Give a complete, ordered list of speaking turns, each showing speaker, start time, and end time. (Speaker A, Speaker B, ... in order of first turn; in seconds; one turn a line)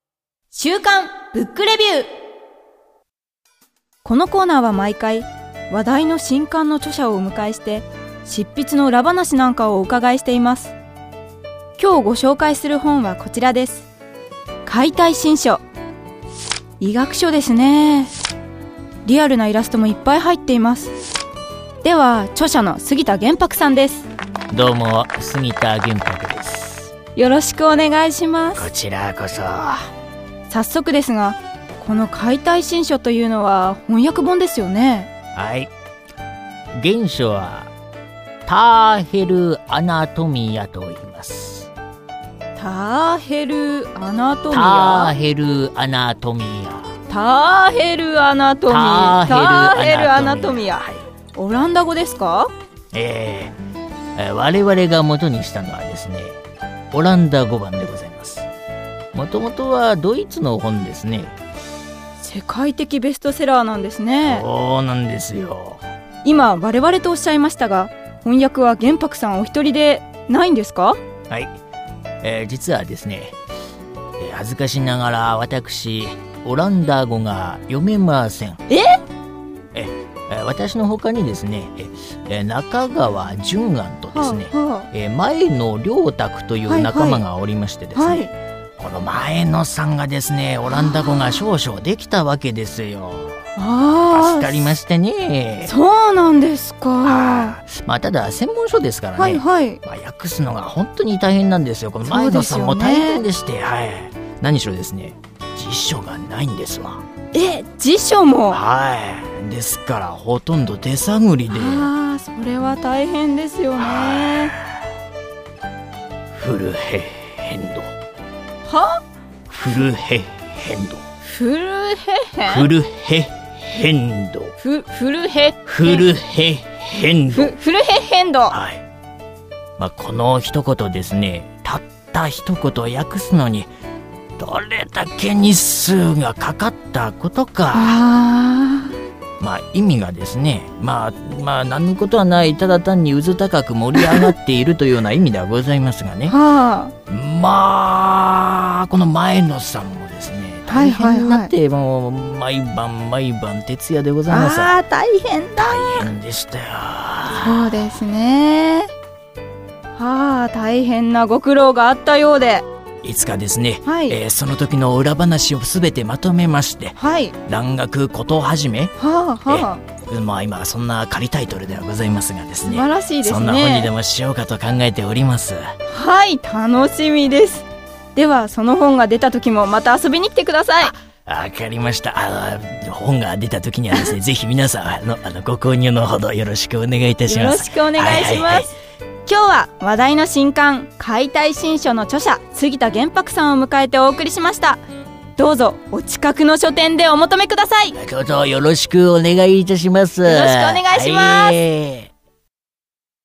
Speaker A: 0.5-2.1
Speaker A: 4.0-10.8
Speaker A: 11.8-13.9
Speaker A: 14.7-15.6
Speaker A: 16.8-18.1
Speaker A: 19.1-20.9
Speaker A: 21.8-24.1
Speaker B: 24.5-26.9
Speaker A: 27.1-28.7
Speaker B: 28.6-29.9
Speaker A: 30.5-35.1
Speaker B: 35.3-35.7
Speaker B: 36.8-37.7
Speaker B: 38.5-41.7
Speaker A: 42.6-45.2
Speaker B: 44.5-47.0
Speaker A: 47.1-52.5
Speaker B: 48.7-51.0
Speaker B: 52.9-53.6
Speaker B: 54.2-56.4
Speaker B: 56.9-58.5
Speaker B: 59.1-61.3
Speaker A: 62.2-64.5
Speaker B: 64.2-65.8
Speaker A: 66.2-71.0
Speaker B: 71.3-71.5
Speaker B: 72.2-73.4
Speaker B: 74.2-78.6
Speaker A: 78.7-79.0
Speaker B: 79.7-88.3
Speaker A: 84.1-84.9
Speaker A: 86.7-87.2
Speaker A: 87.9-88.3
Speaker B: 88.8-93.4
Speaker A: 90.7-91.3
Speaker A: 93.6-94.8
Speaker B: 94.1-95.7
Speaker A: 95.7-97.6
Speaker B: 97.0-107.0
Speaker A: 99.2-99.8
Speaker A: 102.0-103.2
Speaker A: 107.3-108.6
Speaker B: 108.5-111.9
Speaker A: 111.5-114.5
Speaker B: 113.8-114.8
Speaker B: 116.3-117.9
Speaker A: 118.7-119.0
Speaker B: 119.5-121.0
Speaker A: 121.2-122.7
Speaker B: 122.4-124.5
Speaker A: 124.6-126.1
Speaker B: 125.7-127.5
Speaker A: 127.3-128.6
Speaker B: 128.5-128.8
Speaker B: 129.8-133.7
Speaker B: 134.4-138.0
Speaker A: 137.7-138.9
Speaker B: 139.4-146.4
Speaker A: 144.0-144.3
Speaker A: 146.3-146.9
Speaker B: 147.1-154.8
Speaker A: 150.7-151.5
Speaker A: 154.3-156.1
Speaker B: 155.6-157.8
Speaker A: 157.3-158.9
Speaker A: 159.9-162.7
Speaker B: 163.0-168.9
Speaker A: 163.8-164.2
Speaker A: 167.0-167.4
Speaker A: 169.0-169.8
Speaker B: 169.5-175.7
Speaker A: 172.7-173.9
Speaker A: 175.9-180.9
Speaker B: 180.8-188.7
Speaker A: 187.3-188.7
Speaker A: 189.3-194.8
Speaker A: 195.4-198.0
Speaker B: 198.0-202.1
Speaker A: 200.2-201.6